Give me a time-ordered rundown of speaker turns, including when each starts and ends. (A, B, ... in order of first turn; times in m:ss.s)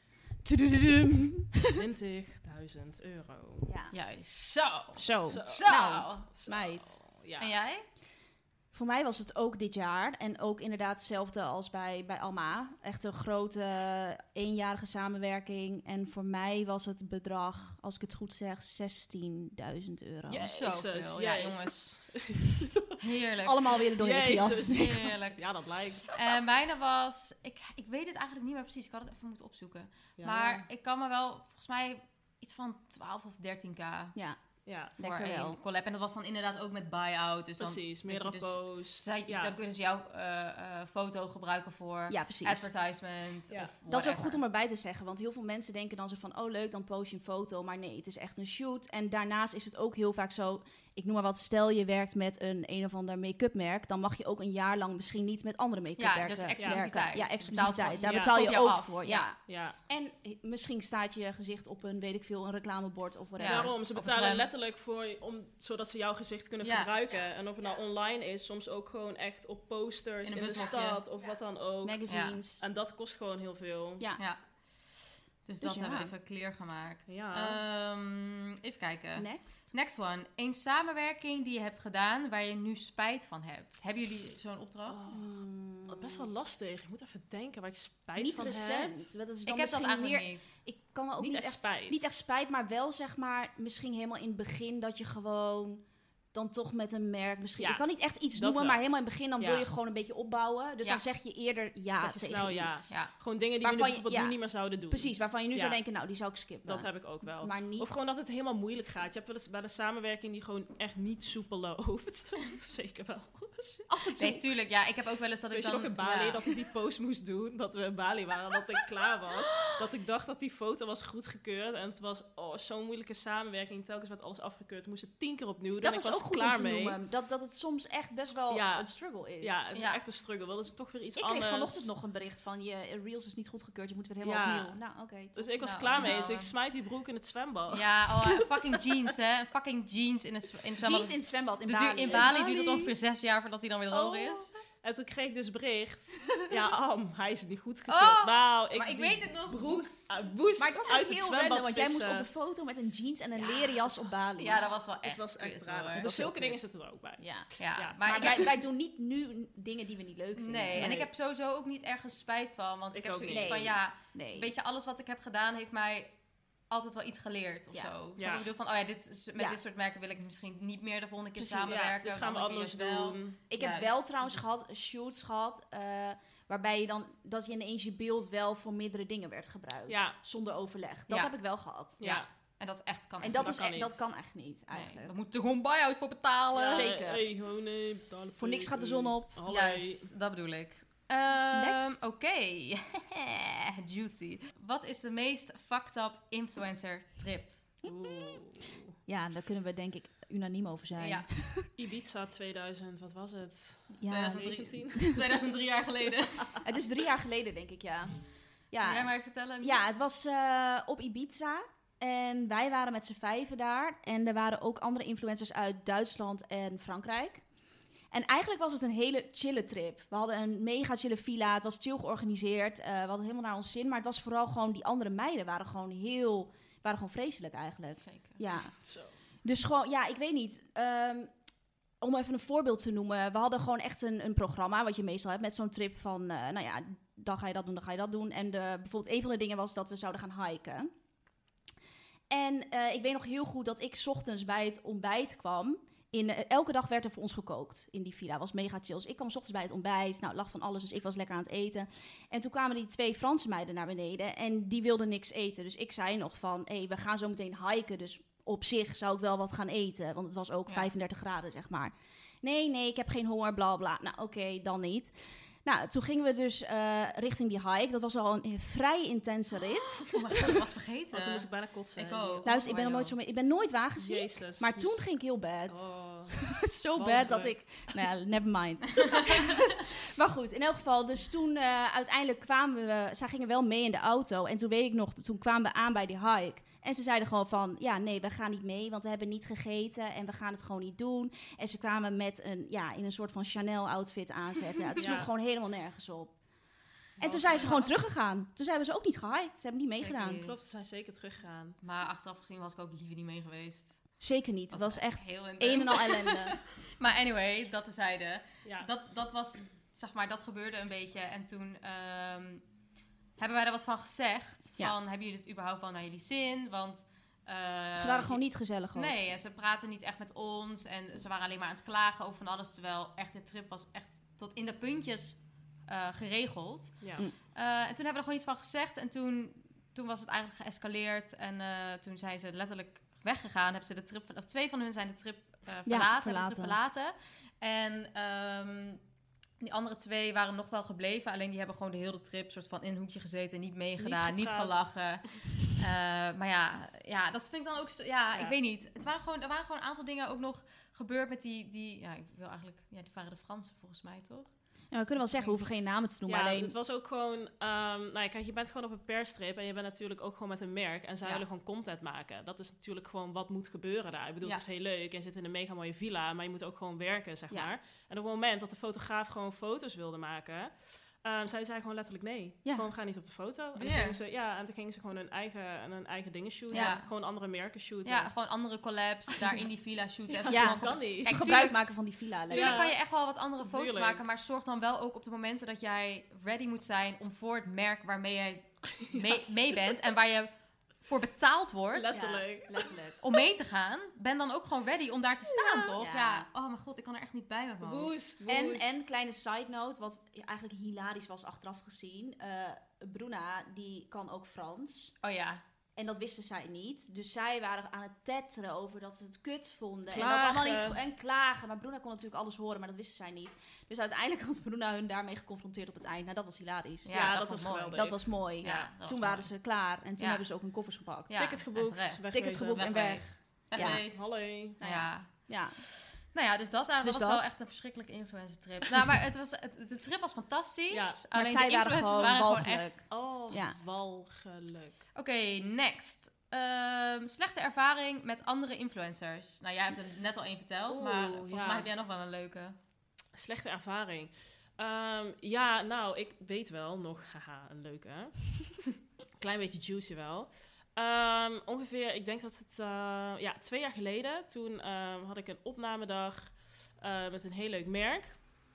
0:00.4-0:01.8 A
0:01.7-0:03.7 B
0:03.6-0:03.9 A
0:03.9-0:06.3 C
0:05.0-0:07.0 A
0:05.3-0:07.5 B
0:07.4-0:07.8 C
0:08.7-0:20.5 A
0:20.3-0:21.9 C
0:20.3-0:22.9 B
0:23.0-0:25.5 C
0:23.4-0:25.1 A
0:24.0-0:26.2 B
0:26.1-0:34.2 C
0:30.2-0:30.7 B
0:34.6-0:35.0 B
0:35.0-0:35.6 A
0:35.0-0:44.4 C
0:37.6-0:39.6 B
0:42.1-0:42.7 A
0:43.9-1:03.7 A
0:56.0-0:59.3 C
0:56.6-0:56.9 B
0:58.0-0:58.6 B
0:59.5-0:59.8 B
1:03.4-1:04.5 C
1:03.4-1:12.0 B
1:06.6-1:06.9 C
1:10.2-1:11.0 C
1:11.8-1:12.6 A
1:12.1-1:12.4 C
1:12.6-1:14.0 B
1:15.4-1:25.1 C
1:15.6-1:16.1 A
1:17.1-1:17.6 B
1:19.2-1:19.6 A
1:24.9-1:25.2 B
1:25.0-1:26.3 A
1:25.9-1:29.0 B
1:28.2-1:42.9 A
1:29.5-1:30.5 C
1:31.2-1:32.1 B
1:37.6-1:38.8 B
1:39.4-1:39.7 B
1:42.0-1:45.8 B
1:43.6-1:47.9 A
1:46.6-1:54.4 B
1:54.1-1:54.4 A
1:54.2-1:56.5 C
1:55.5-2:07.0 B
2:05.8-2:09.6 A
2:08.5-2:08.9 B
2:09.4-2:11.9 B
2:09.7-2:10.0 C
2:11.2-2:15.5 A
2:14.2-2:14.8 B
2:15.3-2:18.5 B
2:15.6-2:16.5 C
2:17.7-2:24.5 C
2:20.8-2:22.3 A
2:22.1-2:22.9 B
2:23.9-2:32.3 B
2:27.9-2:30.2 C
2:30.6-2:34.6 A
2:34.3-2:36.1 C
2:35.0-2:38.3 B
2:36.0-2:36.6 A
2:37.2-2:37.5 A
2:37.6-2:38.6 C
2:38.0-2:41.0 A
2:40.4-2:46.1 C
2:40.8-2:41.1 B
2:42.9-2:43.8 B
2:43.3-2:44.5 A
2:46.7-2:54.3 C
2:48.2-2:48.5 B
2:51.4-2:51.9 A
2:51.7-2:53.4 B
2:53.5-3:02.0 A
2:59.9-3:00.2 B
3:02.0-3:02.3 B
3:02.0-3:03.6 C
3:03.2-3:05.1 A
3:03.3-3:04.0 B
3:04.7-3:06.9 C
3:06.5-3:10.1 B
3:06.7-3:07.2 A
3:08.4-3:09.4 A
3:09.5-3:17.6 C
3:11.5-3:12.0 A
3:17.8-3:18.9 B
3:19.1-3:21.7 A
3:21.0-3:21.3 C
3:21.8-3:25.2 B
3:24.0-3:25.2 A
3:24.0-3:26.6 C
3:26.6-3:37.4 A
3:28.8-3:29.9 C
3:38.1-3:48.8 A
3:48.0-3:48.4 C
3:48.8-3:49.1 B
3:49.4-3:51.3 A
3:52.0-4:00.9 A
4:02.3-4:30.2 A
4:20.7-4:20.9 C
4:30.0-4:32.5 C
4:31.1-4:33.2 B
4:32.4-4:56.3 A
4:34.0-4:35.0 B
4:35.7-4:36.4 B
4:37.0-4:37.9 B
4:55.0-4:55.3 B
4:57.2-4:57.9 B
4:57.2-5:00.4 A
4:59.9-5:00.6 C
5:00.4-5:01.8 B
5:01.8-5:04.0 C
5:04.2-5:06.6 A
5:04.7-5:12.6 C
5:13.4-5:18.4 C
5:18.0-5:19.1 A
5:19.0-5:39.0 C
5:35.9-5:36.8 A
5:39.6-5:54.5 C
5:44.0-5:45.0 B
5:54.9-5:56.8 A
5:55.2-5:55.7 C
5:56.3-6:18.3 B
6:13.8-6:14.2 C
6:16.7-6:17.0 A
6:16.7-6:17.1 C
6:18.0-6:21.8 C
6:20.3-6:21.4 B
6:20.5-6:22.8 A
6:22.5-6:32.4 C
6:22.5-6:23.0 B
6:23.6-6:24.2 B
6:29.0-6:29.4 B
6:31.9-6:32.9 B
6:32.1-6:33.2 A
6:33.2-6:38.1 C
6:35.5-6:35.9 B
6:36.0-6:36.5 A
6:37.8-6:39.0 B
6:38.4-6:45.1 A
6:45.2-6:45.6 C
6:46.0-6:57.4 A
6:50.1-6:51.0 B
6:57.0-6:59.5 C
6:57.1-6:58.2 B
6:57.9-7:01.4 A
7:00.2-7:00.4 C
7:01.3-7:13.0 C
7:01.3-7:03.1 B
7:02.3-7:04.0 A
7:03.8-7:04.8 B
7:04.8-7:05.8 A
7:07.0-7:07.5 A
7:10.9-7:11.2 B
7:11.4-7:13.8 A
7:13.1-7:15.0 B
7:15.2-7:22.8 C
7:20.9-7:21.9 B
7:23.4-7:28.5 B
7:29.4-7:38.4 B